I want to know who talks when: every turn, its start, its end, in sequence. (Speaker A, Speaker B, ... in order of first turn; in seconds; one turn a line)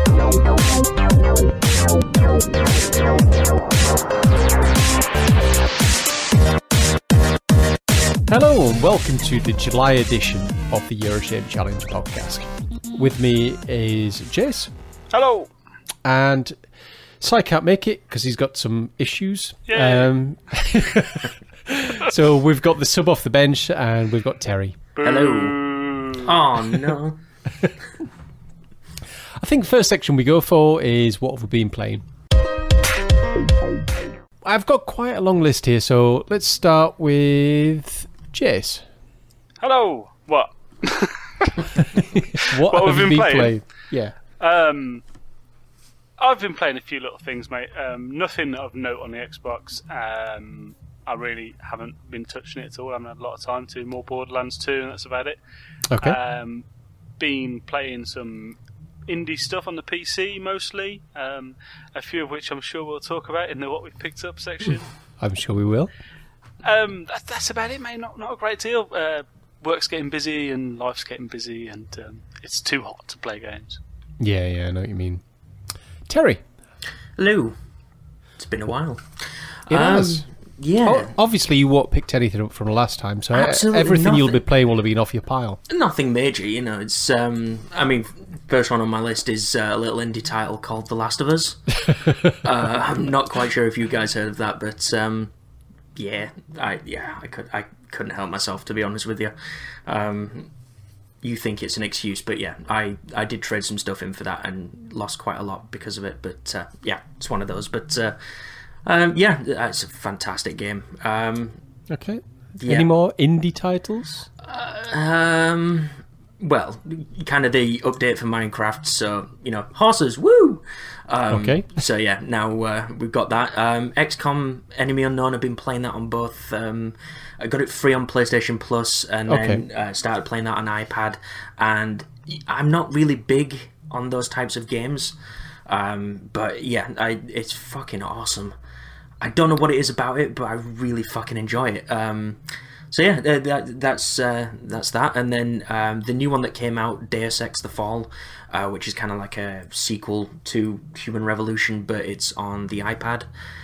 Speaker A: 8.3-14.7
Speaker B: 15.1-15.5
Speaker A: 16.1-16.6
Speaker A: 17.2-24.8
Speaker B: 19.7-20.1
Speaker B: 24.9-26.3
Speaker C: 25.0-27.2
Speaker A: 29.4-32.0
Speaker A: 34.4-38.8
Speaker B: 39.6-43.5
Speaker A: 42.1-44.1
Speaker B: 44.4-45.0
Speaker B: 46.2-55.4
Speaker A: 55.9-56.2
Speaker B: 56.0-56.7
Speaker B: 57.2-64.9
Speaker A: 65.2-65.9
Speaker B: 66.6-73.8
Speaker A: 74.2-75.2
Speaker A: 76.1-76.4
Speaker C: 77.2-77.6
Speaker C: 78.4-81.1
Speaker A: 79.7-80.3
Speaker A: 80.8-85.6
Speaker C: 83.3-84.4
Speaker C: 85.7-95.3
Speaker C: 96.0-100.5
Speaker C: 101.2-108.2
Speaker C: 108.8-111.6
Speaker A: 111.9-114.3
Speaker C: 112.6-112.9
Speaker C: 114.4-135.2
Speaker A: 121.3-121.7
Speaker A: 129.3-129.6
Speaker C: 135.7-138.5
Speaker C: 139.2-153.3